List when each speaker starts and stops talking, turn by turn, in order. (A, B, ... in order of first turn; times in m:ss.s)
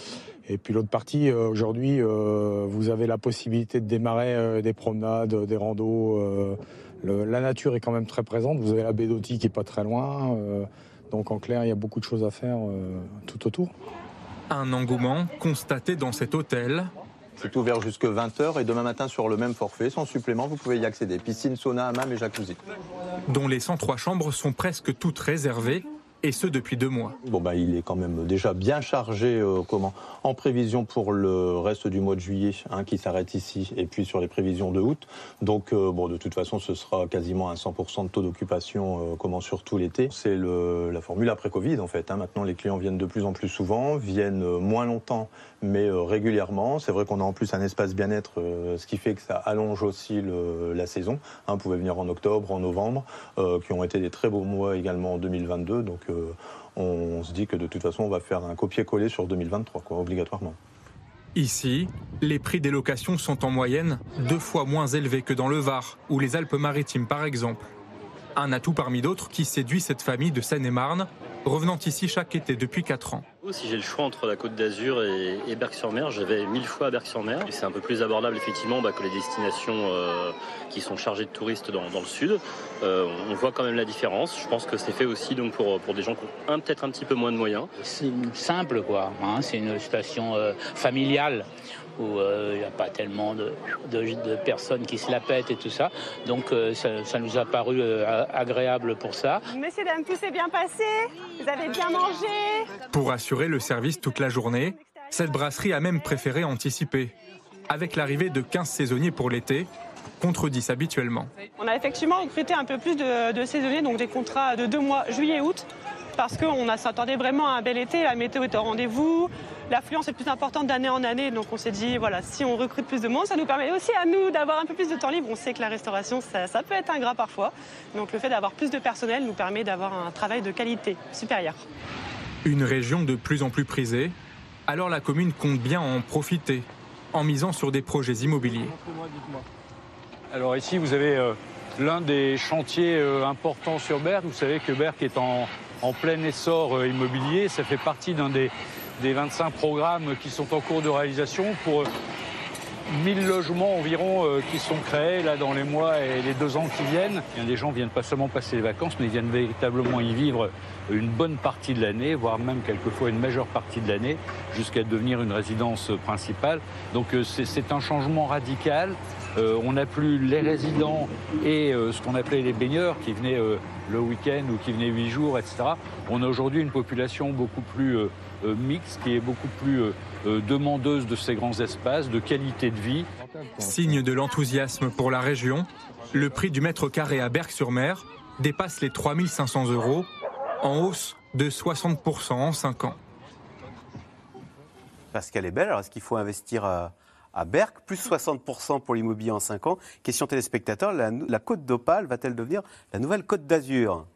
0:00.4-0:13.7 A
0:14.5-0:16.9 B
0:17.4-0:22.6 C
0:23.3-0:27.1 B
0:27.2-1:00.6 C
1:01.4-1:07.6 B
1:08.4-1:13.3 B
1:13.4-1:27.7 D
1:27.8-1:39.4 E
1:39.5-1:42.8 F
1:42.9-1:47.1 B
1:47.7-1:49.7 B
1:50.2-1:51.3 B
1:51.6-1:55.7 F
1:56.2-2:11.6 F
2:12.4-2:14.1 B
2:14.7-2:18.7 B
2:20.3-2:31.9 G
2:33.0-3:03.1 G
3:03.6-3:10.1 B
3:10.6-3:13.0 B
3:15.1-3:24.0 H